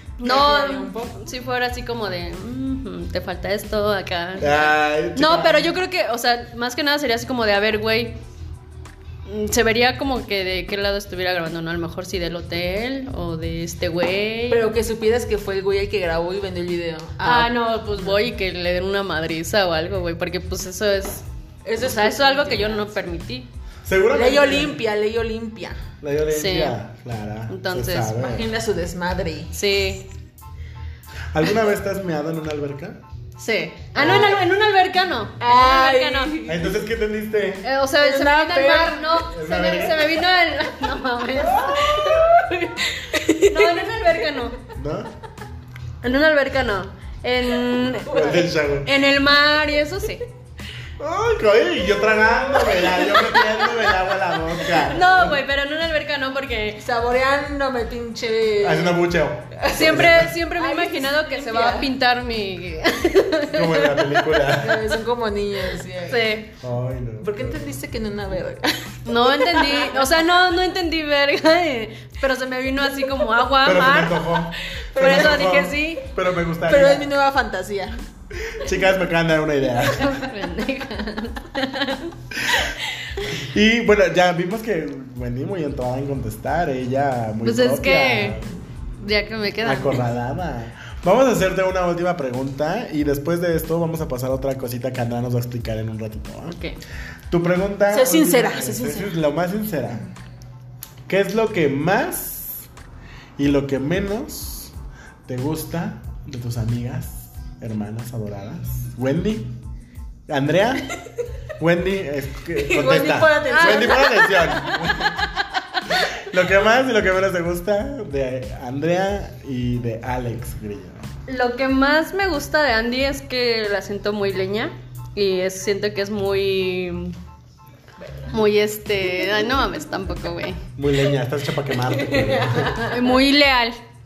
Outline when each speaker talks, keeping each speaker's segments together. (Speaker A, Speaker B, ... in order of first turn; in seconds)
Speaker A: 0.2-1.2, 14.5-18.2, 21.6-23.0, 24.1-25.8, 28.2-29.6, 34.0-34.4, 35.4-36.8, 38.0-39.2, 42.0-44.1, 48.1-48.4, 56.8-59.0, 59.6-61.9, 64.6-66.4, 67.2-70.1, 75.0-75.6, 76.7-78.0, 97.9-99.1, 112.6-115.1, 131.9-133.1
Speaker B: 0.2-8.2, 9.2-14.7, 17.2-21.2, 21.8-23.5, 26.3-26.8, 27.5-28.2, 29.5-30.1, 33.4-36.4, 37.6-42.2, 43.4-44.6, 46.0-50.2, 54.7-56.8, 59.7-64.3, 65.8-66.5, 69.1-76.1, 79.9-82.1, 87.4-88.4, 89.0-90.1, 96.5-96.8, 113.5-114.5, 121.3-127.2, 128.3-130.6, 132.8-133.8
Speaker C: 4.4-5.7, 23.9-24.8, 26.0-28.4, 31.3-33.0, 36.5-37.7, 39.2-40.1, 41.4-42.4, 44.7-45.1, 48.0-48.9, 51.0-55.4, 58.6-60.3, 63.5-64.9, 66.6-67.8, 73.6-77.1, 78.4-80.3, 82.4-82.7, 83.3-88.6, 89.6-96.6, 97.3-100.0, 101.1-102.7, 103.4-104.7, 105.3-109.6, 110.3-110.8, 111.6-115.2, 115.9-121.1, 130.8-132.8